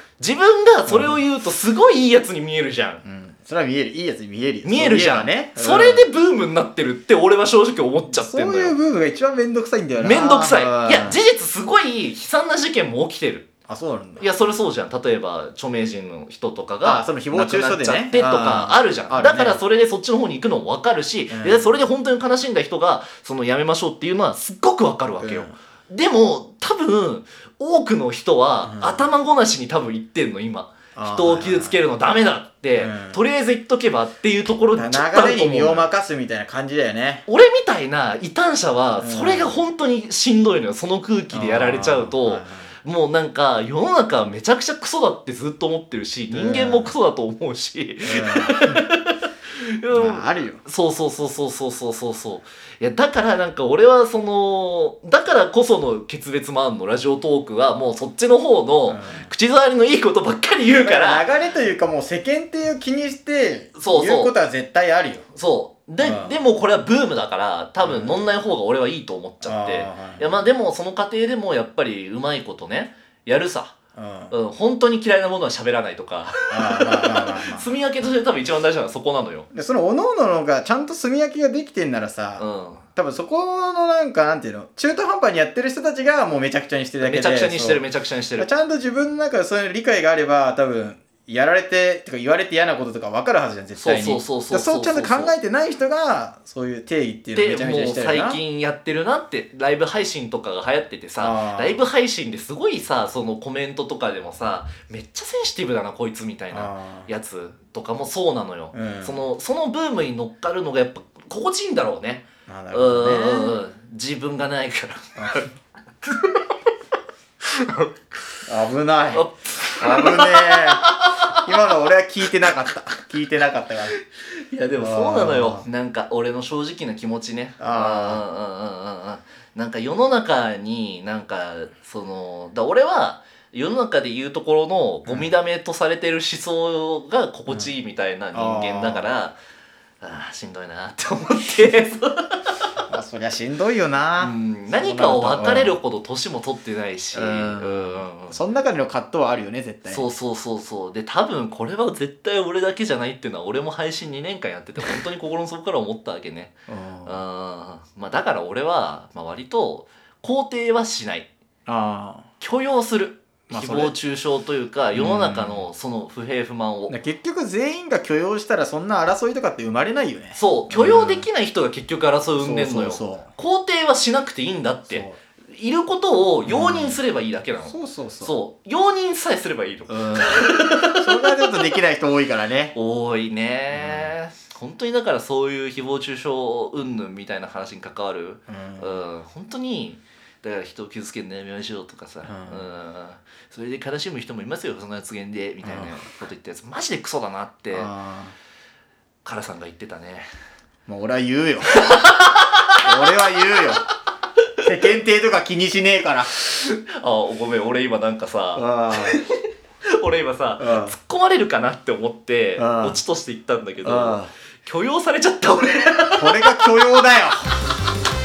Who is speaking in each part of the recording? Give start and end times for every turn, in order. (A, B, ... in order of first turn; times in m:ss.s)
0:00.2-0:03.0 A
0:00.9-0:01.2 B
0:03.0-0:06.1 B
0:04.6-0:08.8 A
0:08.1-0:11.2 B
0:10.0-0:13.5 A
0:13.7-0:14.3 B
0:14.2-0:35.9 A
0:16.8-0:19.6 B
0:21.3-0:21.8 B
0:25.2-0:25.6 B
0:28.6-0:29.1 B
0:31.0-0:31.8 B
0:32.8-0:33.3 B
0:34.7-0:37.2 B
0:37.3-1:01.3 A
0:39.0-0:39.6 B
0:41.3-0:42.7 B
0:46.3-0:46.9 B
0:48.0-0:48.9 B
0:49.9-0:50.6 B
0:58.9-0:59.3 B
1:00.7-1:05.2 B
1:03.8-1:04.3 A
1:05.3-1:13.7 A
1:06.0-1:06.4 B
1:07.8-1:08.2 B
1:09.4-1:10.4 B
1:14.0-1:14.4 B
1:14.3-1:19.5 A
1:16.5-1:17.7 B
1:19.5-1:27.8 B
1:22.4-1:22.9 A
1:27.0-1:28.5 A
1:28.4-1:38.4 B
1:33.8-1:35.3 A
1:37.3-1:55.5 A
1:41.2-1:41.8 B
1:46.5-1:47.1 B
1:48.7-1:49.2 B
1:52.5-1:53.6 B
1:55.2-1:55.5 B
1:56.0-1:56.5 A
1:57.4-1:57.9 A
1:58.5-2:04.0 B
1:59.2-2:01.5 A
2:04.2-2:19.4 A
2:04.8-2:05.7 B
2:07.6-2:08.2 B
2:15.1-2:15.3 B
2:17.5-2:17.7 B
2:18.3-2:19.1 B
2:20.0-2:22.7 A
2:22.9-2:25.8 B
2:24.2-2:28.4 A
2:27.1-2:30.1 B
2:29.9-2:41.3 A
2:36.7-2:37.2 B
2:41.7-2:42.3 B
2:42.4-2:47.0 A
2:43.5-2:44.0 B
2:45.0-2:45.7 B
2:46.9-2:51.3 B
2:50.4-3:01.6 A
2:52.4-2:53.3 B
2:54.9-2:55.2 B
2:56.4-2:57.0 B
2:57.6-2:58.4 B
2:59.9-3:02.8 B
3:02.7-3:17.9 A
3:03.7-3:04.1 B
3:08.5-3:09.0 B
3:12.2-3:12.7 B
3:15.6-3:16.0 B
3:17.7-3:18.4 B
3:19.2-3:20.3 A
3:20.9-3:21.8 B
3:21.7-3:23.5 A
3:22.8-3:23.8 B
3:24.6-3:26.3 B
3:26.4-3:36.7 A
3:28.6-3:29.2 B
3:30.6-3:31.0 B
3:32.6-3:33.0 B
3:33.8-3:34.3 B
3:36.2-3:37.5 B